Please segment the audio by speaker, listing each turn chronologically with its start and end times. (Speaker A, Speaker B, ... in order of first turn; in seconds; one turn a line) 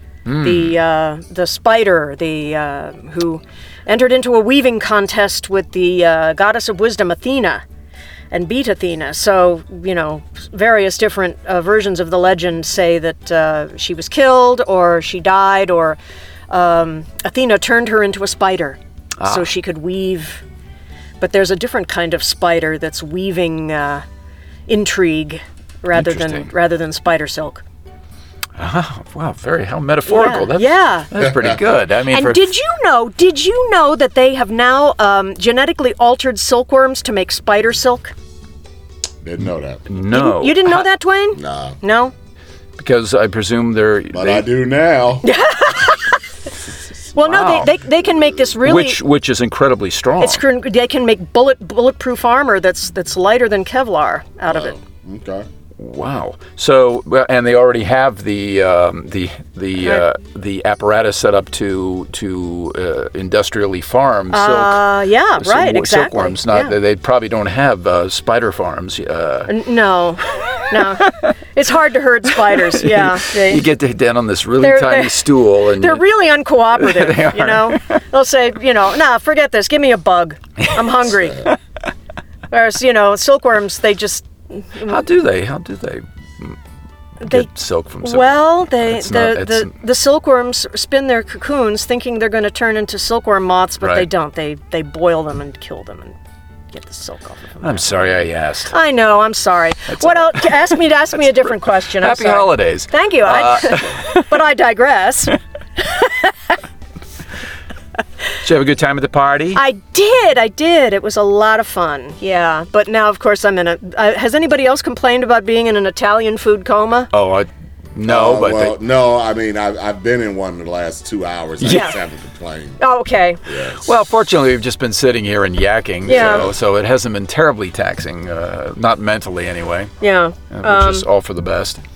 Speaker A: 0.2-0.7
Speaker B: 0.4-7.6
Speaker B: 8.3-16.0
Speaker B: 16.5-20.4
Speaker A: 19.2-19.5
Speaker B: 21.2-24.0
Speaker B: 24.7-27.6
Speaker A: 25.9-26.5
Speaker A: 28.6-32.5
Speaker B: 30.1-31.1
Speaker C: 31.2-31.5
Speaker B: 32.1-38.1
Speaker C: 39.2-39.8
Speaker A: 39.9-40.9
Speaker B: 40.1-42.1
Speaker C: 41.3-41.8
Speaker A: 42.8-44.5
Speaker C: 44.1-45.3
Speaker B: 45.2-46.2
Speaker B: 47.1-49.0
Speaker A: 47.2-47.7
Speaker A: 48.6-50.4
Speaker B: 50.2-54.8
Speaker C: 54.5-55.5
Speaker A: 55.8-69.5
Speaker B: 64.3-66.8
Speaker B: 69.5-73.7
Speaker A: 72.6-76.1
Speaker B: 74.6-81.5
Speaker A: 76.8-77.9
Speaker B: 82.5-85.0
Speaker A: 84.9-86.6
Speaker B: 87.2-87.5
Speaker A: 87.2-89.7
Speaker B: 88.0-96.2
Speaker A: 93.8-94.1
Speaker B: 96.7-98.0
Speaker A: 97.6-98.7
Speaker B: 98.7-106.5
Speaker A: 99.9-100.8
Speaker A: 101.9-104.3
Speaker A: 108.4-109.6
Speaker B: 109.5-117.1
Speaker A: 117.1-118.8
Speaker C: 118.1-122.8
Speaker A: 121.6-121.9
Speaker B: 121.7-122.0
Speaker B: 122.8-123.4
Speaker C: 123.5-123.9
Speaker A: 123.8-129.9
Speaker C: 126.1-126.5
Speaker B: 126.1-126.5
Speaker B: 130.0-131.1
Speaker A: 130.5-131.8